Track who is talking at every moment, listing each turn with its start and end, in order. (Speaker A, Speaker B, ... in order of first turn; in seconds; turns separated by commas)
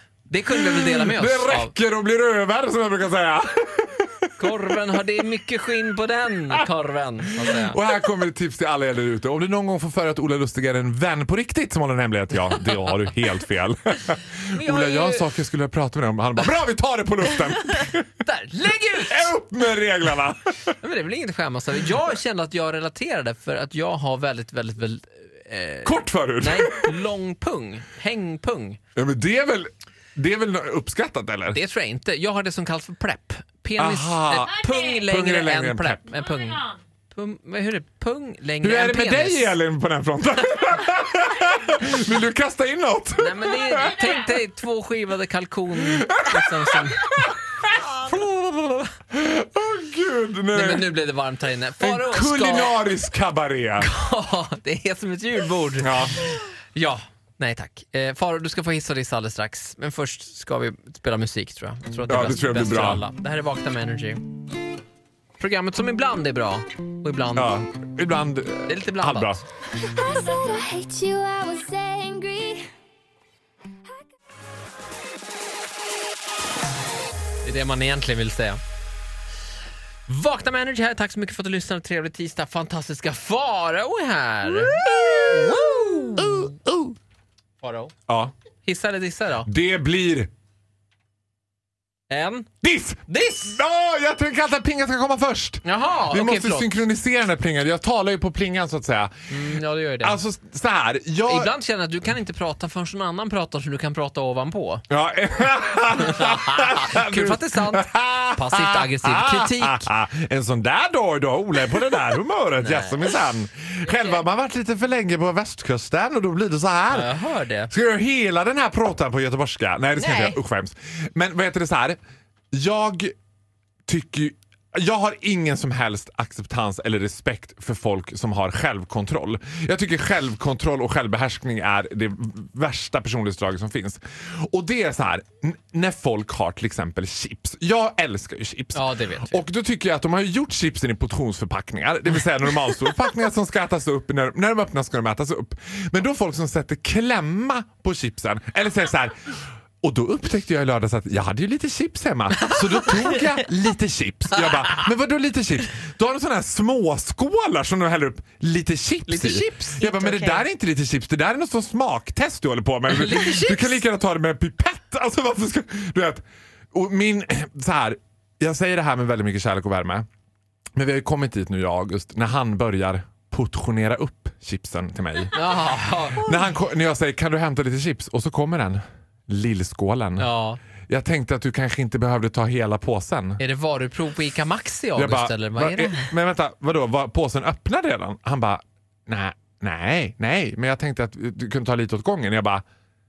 Speaker A: 0.3-1.7, Speaker B: 0.6-4.8, Speaker A: 4.4-7.8, Speaker B: 7.4-18.2, Speaker A: 14.5-15.2, Speaker A: 18.2-19.3, Speaker B: 19.0-20.8, Speaker A: 20.8-28.8, Speaker B: 25.8-26.9, Speaker B: 28.9-31.6, Speaker A: 31.5-39.6, Speaker B: 33.8-36.0, Speaker B: 38.6-44.1, Speaker A: 43.2-48.9, Speaker B: 45.8-47.3, Speaker B: 49.1-51.0, Speaker A: 50.5-52.8, Speaker B: 51.8-53.9, Speaker A: 53.8-64.2, Speaker B: 55.8-56.2, Speaker B: 62.1-63.0, Speaker A: 65.4-67.5, Speaker B: 67.3-69.4, Speaker A: 68.7-69.4, Speaker C: 70.0-72.6, Speaker A: 77.4-78.6, Speaker A: 80.1-86.5, Speaker B: 84.5-87.0, Speaker A: 87.6-87.9, Speaker B: 88.1-88.3, Speaker A: 88.6-89.5, Speaker B: 89.5-90.3, Speaker A: 92.1-92.5, Speaker B: 92.6-101.5, Speaker A: 93.1-93.5, Speaker A: 95.6-96.7, Speaker A: 99.3-100.2, Speaker A: 101.2-104.8, Speaker B: 104.9-117.1, Speaker A: 106.0-109.9, Speaker A: 112.6-113.2, Speaker A: 113.8-114.1, Speaker A: 116.9-117.7, Speaker B: 117.7-122.0, Speaker A: 120.0-120.4, Speaker B: 122.5-123.1, Speaker B: 123.9-166.2, Speaker A: 138.7-139.4, Speaker A: 159.1-160.3, Speaker A: 162.9-163.8, Speaker B: 166.7-170.1, Speaker B: 170.8-175.6, Speaker A: 175.3-176.4, Speaker B: 176.1-180.3, Speaker A: 180.2-180.6, Speaker B: 180.9-183.4, Speaker A: 183.4-186.1, Speaker B: 184.9-192.6